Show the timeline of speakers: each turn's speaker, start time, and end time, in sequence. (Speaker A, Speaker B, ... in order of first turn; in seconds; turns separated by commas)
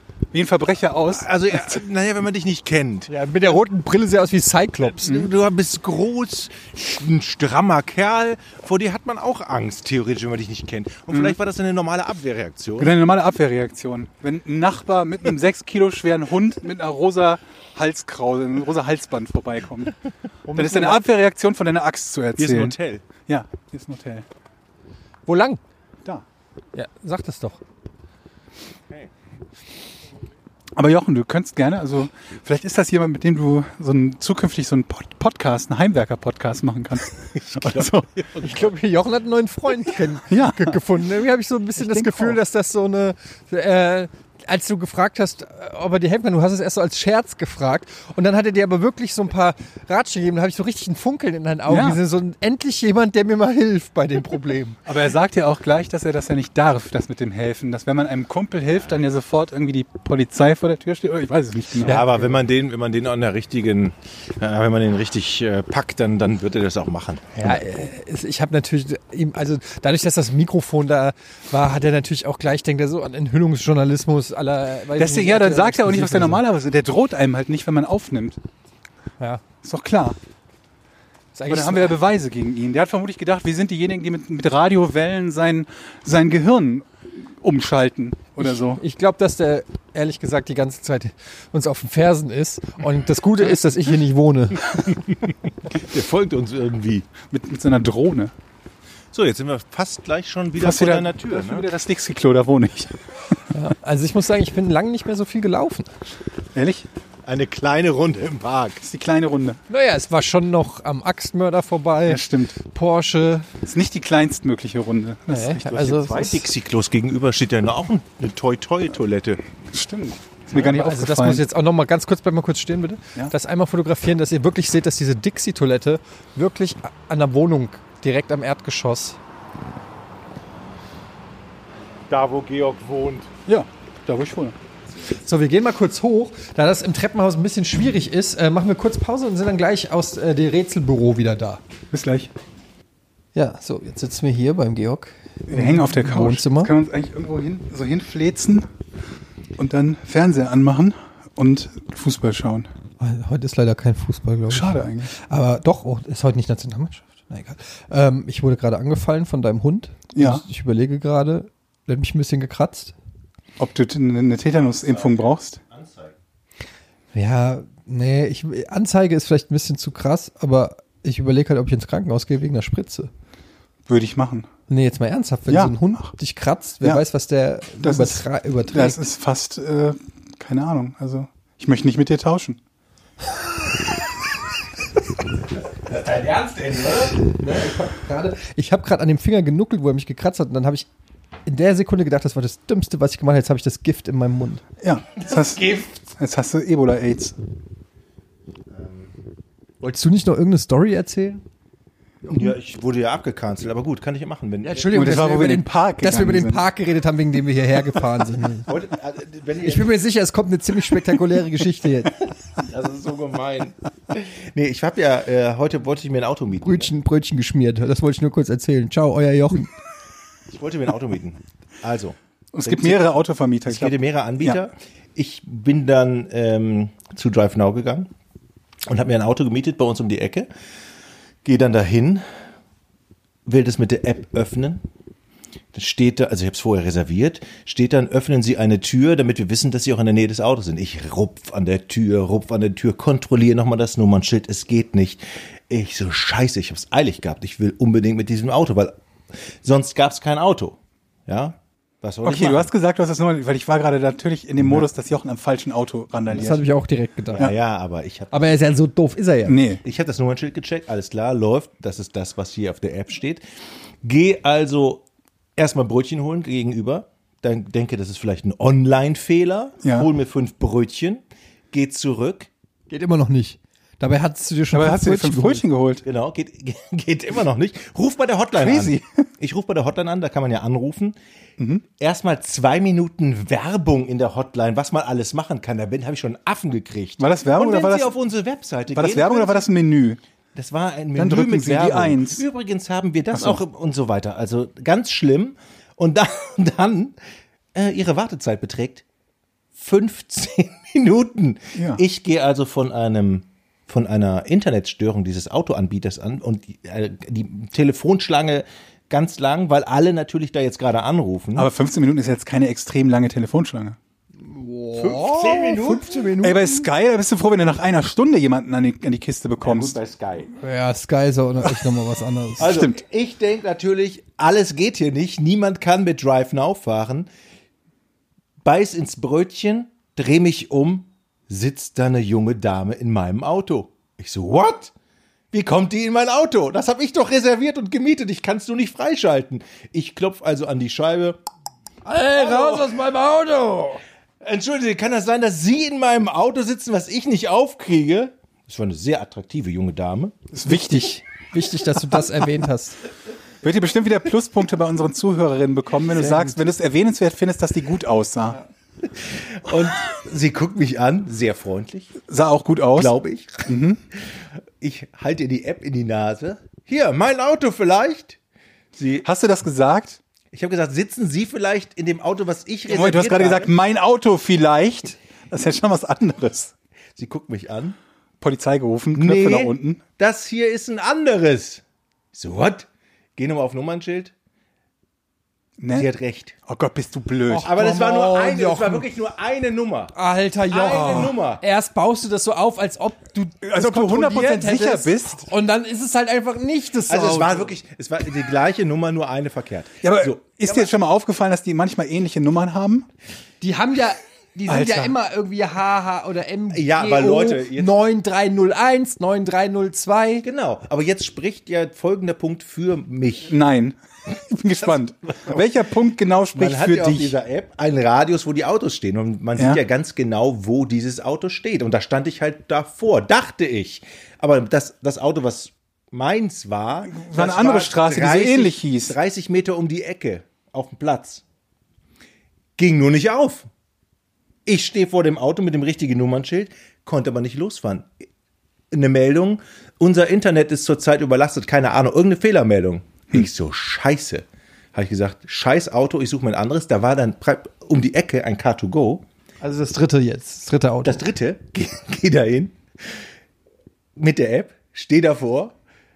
Speaker A: 0.3-1.8, Speaker B: 1.1-3.1, Speaker C: 3.1-5.2, Speaker B: 4.9-12.9, Speaker A: 12.8-19.9, Speaker A: 20.5-24.2, Speaker B: 20.7-20.9, Speaker B: 22.4-23.0, Speaker C: 25.2-25.6, Speaker C: 26.7-27.6, Speaker A: 30.8-38.1, Speaker B: 37.3-38.7, Speaker C: 38.4-54.8, Speaker A: 40.3-40.8, Speaker A: 41.8-42.4, Speaker A: 51.7-52.0, Speaker A: 54.9-62.0, Speaker B: 61.8-67.5, Speaker C: 61.8-62.3, Speaker C: 67.3-76.4, Speaker A: 75.0-78.4, Speaker A: 79.6-80.2, Speaker C: 81.3-82.0, Speaker A: 81.5-88.8, Speaker C: 88.4-94.9, Speaker B: 95.3-97.1, Speaker A: 97.3-98.3, Speaker B: 99.1-101.7, Speaker A: 100.6-103.0, Speaker C: 103.5-105.9, Speaker A: 106.5-106.9, Speaker B: 107.2-108.8, Speaker A: 108.8-109.6, Speaker C: 109.7-113.5, Speaker A: 112.0-112.5, Speaker A: 113.6-116.1, Speaker C: 115.3-116.5, Speaker B: 115.8-119.4, Speaker A: 119.7-121.4, Speaker C: 120.5-129.2, Speaker B: 132.1-133.3, Speaker A: 133.5-134.6, Speaker C: 135.2-141.6, Speaker A: 141.9-142.3, Speaker C: 143.3-146.7, Speaker A: 145.5-148.7, Speaker A: 149.6-152.7, Speaker C: 153.0-162.9, Speaker A: 154.5-155.1, Speaker A: 160.1-160.4, Speaker A: 163.6-165.6, Speaker B: 164.6-166.1, Speaker C: 167.1-173.1, Speaker A: 173.9-174.5, Speaker C: 174.7-179.0, Speaker A: 175.5-176.1, Speaker A: 177.8-182.6, Speaker B: 185.9-187.1, Speaker C: 187.1-190.9, Speaker C: 191.4-194.6, Speaker A: 194.8-197.3, Speaker B: 195.3-195.8, Speaker B: 198.7-199.1, Speaker C: 199.8-201.4, Speaker C: 202.3-202.5, Speaker B: 202.3-204.9, Speaker C: 204.6-208.7, Speaker A: 204.9-206.6, Speaker B: 208.7-209.9, Speaker C: 209.6-212.1, Speaker B: 212.6-216.9, Speaker C: 216.6-219.7, Speaker B: 220.5-223.1, Speaker A: 222.5-224.6, Speaker B: 223.7-228.1, Speaker B: 228.9-230.5, Speaker B: 231.4-232.2, Speaker B: 233.4-234.8, Speaker B: 235.7-248.9, Speaker B: 249.6-252.7, Speaker A: 252.2-256.6, Speaker C: 256.3-257.5, Speaker B: 257.3-258.6, Speaker C: 258.3-259.6, Speaker A: 259.4-259.8, Speaker B: 259.8-263.4, Speaker B: 264.0-265.0, Speaker B: 265.6-272.5, Speaker A: 269.8-270.1, Speaker C: 272.9-275.6, Speaker A: 274.7-276.0, Speaker B: 276.0-281.1, Speaker A: 278.6-279.3, Speaker B: 282.0-289.7, Speaker A: 287.2-288.1, Speaker A: 288.9-290.2, Speaker B: 290.5-297.2, Speaker A: 291.1-292.4, Speaker A: 293.3-293.6, Speaker B: 297.7-299.0, Speaker B: 299.7-311.7, Speaker A: 301.7-302.0, Speaker A: 311.6-314.0, Speaker C: 314.4-316.9, Speaker B: 314.9-316.2, Speaker A: 316.4-320.0, Speaker B: 319.6-320.5, Speaker C: 320.6-322.8, Speaker A: 322.6-323.0, Speaker B: 322.6-327.3, Speaker B: 328.6-334.9, Speaker B: 335.5-341.4, Speaker C: 342.0-344.0, Speaker B: 342.3-342.9, Speaker B: 344.4-350.3, Speaker A: 350.5-351.1, Speaker C: 350.6-353.0, Speaker A: 353.6-358.6, Speaker C: 356.1-356.6, Speaker B: 359.0-362.1, Speaker A: 362.3-363.1, Speaker B: 362.9-363.7, Speaker A: 363.7-364.0, Speaker B: 364.8-368.4, Speaker B: 368.9-369.2, Speaker A: 369.2-370.2, Speaker B: 370.5-373.7, Speaker A: 372.9-376.7, Speaker B: 377.1-378.0, Speaker A: 378.4-380.0, Speaker B: 379.1-384.3, Speaker A: 385.8-386.1, Speaker B: 385.9-386.5, Speaker A: 386.7-387.7, Speaker C: 387.5-389.1, Speaker B: 387.6-390.1, Speaker C: 390.1-397.7, Speaker B: 390.7-391.6, Speaker A: 390.9-391.3, Speaker A: 393.6-395.5, Speaker B: 397.1-400.9, Speaker A: 400.0-403.1, Speaker C: 403.6-410.4, Speaker A: 404.7-405.1, Speaker B: 406.7-407.9, Speaker B: 410.4-413.5, Speaker A: 413.5-417.3, Speaker B: 416.5-431.4, Speaker A: 427.1-429.1, Speaker B: 432.8-433.7, Speaker B: 434.6-438.1, Speaker B: 438.9-449.2, Speaker C: 449.6-451.2, Speaker B: 451.0-453.1, Speaker B: 454.2-455.7